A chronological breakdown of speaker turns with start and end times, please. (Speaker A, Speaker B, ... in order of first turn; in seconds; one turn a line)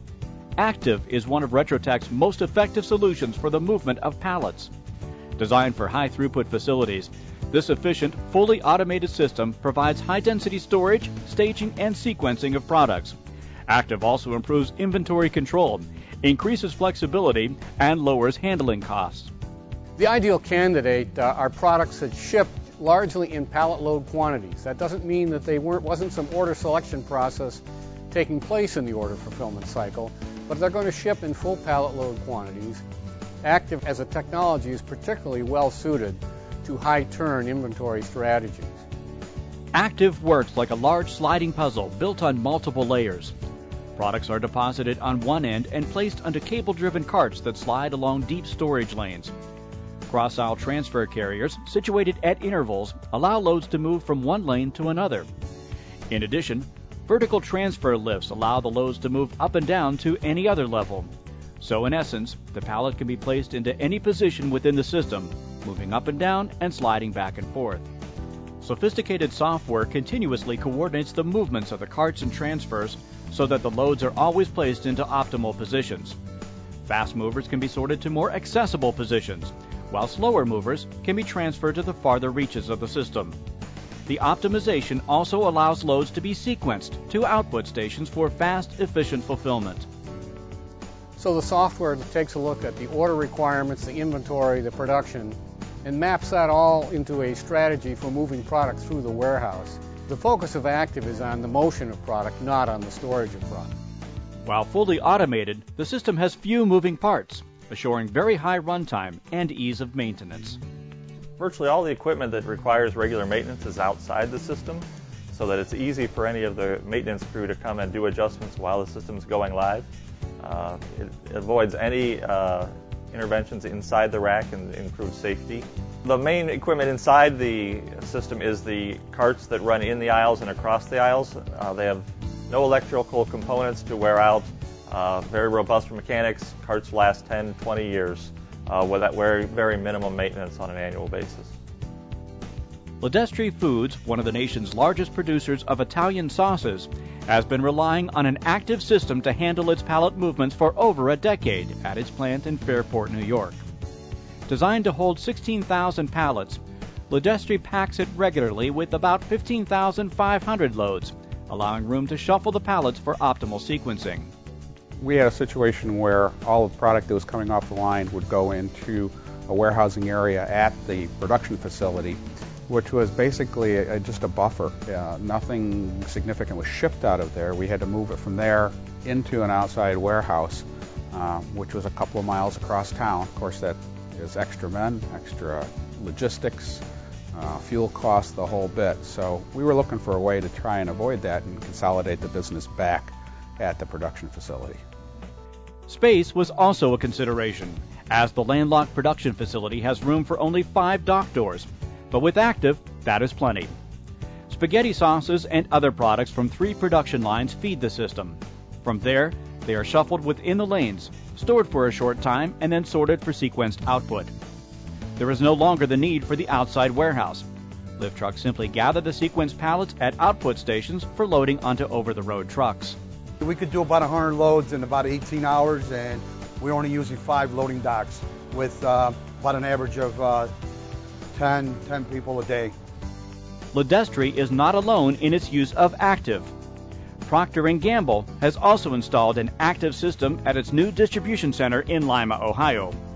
Speaker A: 0.6-4.7
Speaker A: 5.4-13.1
Speaker A: 13.7-19.3
Speaker B: 20.0-32.8
Speaker B: 33.4-38.8
Speaker A: 39.7-43.3
Speaker A: 44.0-49.3
Speaker A: 50.1-55.3
Speaker A: 56.1-67.9
Speaker A: 68.6-76.2
Speaker A: 76.8-83.3
Speaker A: 84.0-89.8
Speaker B: 91.2-103.7
Speaker A: 104.4-110.6
Speaker C: 111.4-119.8
Speaker C: 120.4-141.5
Speaker A: 143.0-153.6
Speaker A: 154.5-164.3
Speaker D: 165.0-194.8
Speaker A: 195.9-203.7
Speaker A: 204.5-214.3
Speaker A: 215.2-217.4
Speaker A: 218.0-223.0
Speaker E: 223.4-230.5
Speaker E: 231.3-232.7
Speaker A: 233.7-236.5
Speaker A: 237.2-243.0